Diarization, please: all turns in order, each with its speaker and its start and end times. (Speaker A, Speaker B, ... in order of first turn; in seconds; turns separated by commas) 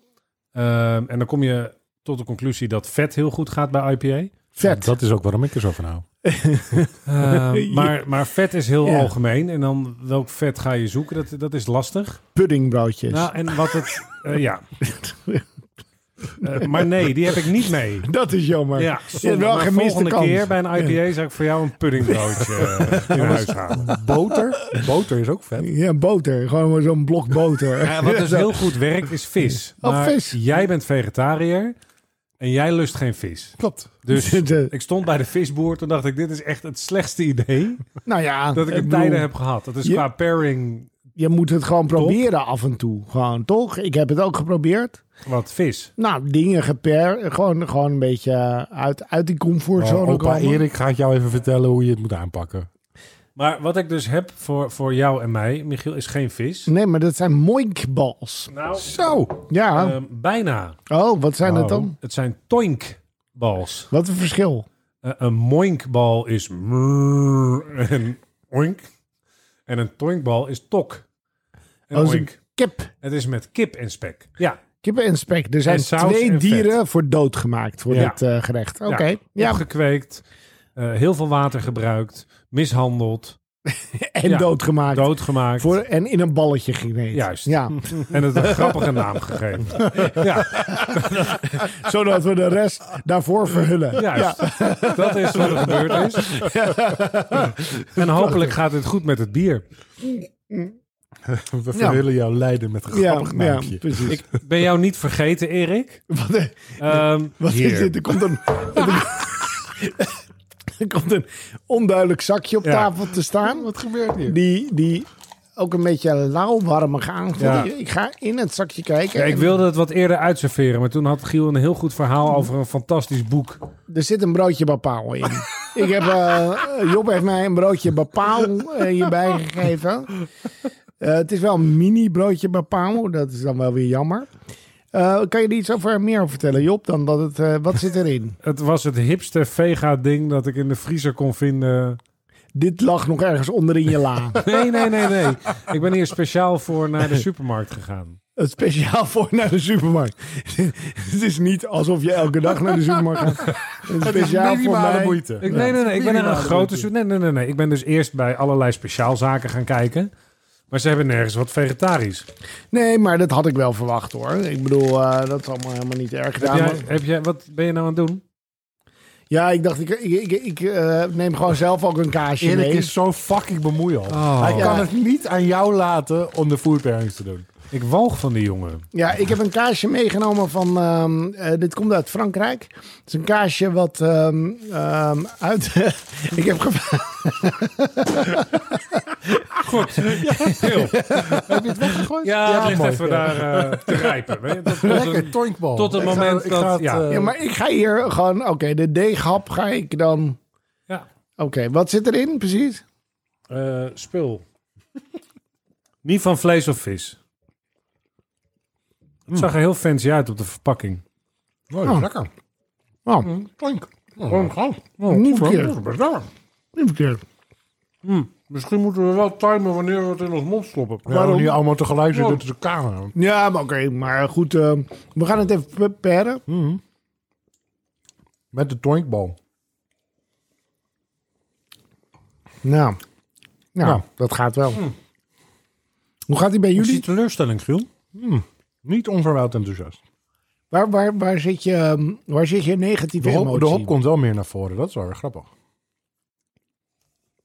Speaker A: 0.5-4.3, Speaker B: 4.6-4.9, Speaker C: 4.6-6.0, Speaker B: 6.2-8.0, Speaker A: 7.1-12.2, Speaker B: 8.8-9.1, Speaker B: 12.3-13.8, Speaker A: 13.1-14.7, Speaker B: 14.8-15.4, Speaker A: 16.4-18.1, Speaker B: 18.0-21.0, Speaker A: 18.8-23.9, Speaker B: 22.3-23.4, Speaker C: 23.1-25.7, Speaker B: 25.6-28.8, Speaker A: 27.8-31.8, Speaker B: 29.8-30.4, Speaker A: 32.4-37.9, Speaker C: 33.6-33.9, Speaker B: 34.1-34.7, Speaker B: 38.0-39.3, Speaker A: 38.5-40.9, Speaker B: 41.2-45.0, Speaker A: 42.0-42.2, Speaker A: 45.3-45.9, Speaker B: 46.0-50.6, Speaker C: 49.8-52.7, Speaker A: 53.4-56.7, Speaker B: 56.7-58.5, Speaker A: 58.5-58.9, Speaker C: 58.8-59.4, Speaker B: 59.5-60.0, Speaker A: 59.7-60.8, Speaker B: 60.9-62.0, Speaker C: 61.4-61.9, Speaker A: 62.0-63.9, Speaker B: 63.9-64.7, Speaker A: 65.0-68.9, Speaker A: 69.7-71.0, Speaker A: 71.9-72.4, Speaker B: 71.9-72.9, Speaker A: 73.0-74.6, Speaker B: 74.8-79.6, Speaker A: 75.7-76.7, Speaker A: 77.9-78.2, Speaker A: 78.9-80.2, Speaker A: 80.8-83.4, Speaker B: 83.8-88.8, Speaker A: 84.3-85.8, Speaker A: 87.1-91.1, Speaker B: 90.0-98.3, Speaker A: 94.0-96.3, Speaker A: 98.0-99.7, Speaker C: 101.2-104.2, Speaker B: 101.7-102.0, Speaker B: 102.9-104.2, Speaker A: 104.1-106.0, Speaker B: 106.1-110.2, Speaker A: 106.8-108.0, Speaker B: 110.8-113.7, Speaker A: 112.6-112.9, Speaker C: 113.4-114.4, Speaker B: 114.2-119.5, Speaker A: 117.4-117.7, Speaker A: 119.2-123.6, Speaker B: 123.9-130.2, Speaker B: 131.0-134.3, Speaker B: 134.9-138.4, Speaker A: 138.4-142.0, Speaker B: 142.6-144.5, Speaker A: 144.4-148.2, Speaker B: 148.4-155.8, Speaker C: 152.8-156.9, Speaker A: 155.4-160.1, Speaker A: 160.7-162.2, Speaker B: 162.7-166.9, Speaker A: 166.4-168.2, Speaker B: 169.3-172.9, Speaker C: 172.4-177.5, Speaker A: 174.1-174.8, Speaker B: 174.5-174.9, Speaker A: 177.7-178.8, Speaker B: 178.9-192.1, Speaker A: 189.6-191.2, Speaker C: 190.2-194.1, Speaker A: 192.2-197.1, Speaker C: 194.8-197.3, Speaker B: 197.1-200.4, Speaker B: 201.4-202.8, Speaker A: 203.5-204.4, Speaker A: 206.0-207.2, Speaker A: 209.3-211.0, Speaker C: 211.7-212.3, Speaker C: 213.5-214.8, Speaker A: 214.3-216.3, Speaker B: 215.1-215.8, Speaker B: 216.8-217.2, Speaker A: 218.0-221.5, Speaker C: 221.1-223.1, Speaker B: 221.1-221.6, Speaker A: 222.1-222.4, Speaker B: 223.2-226.4, Speaker C: 226.5-226.8, Speaker C: 228.5-229.4, Speaker B: 232.6-233.0, Speaker B: 233.8-234.8, Speaker B: 236.3-237.1, Speaker A: 236.8-237.9, Speaker C: 238.1-240.0, Speaker B: 240.7-243.9, Speaker C: 243.2-245.5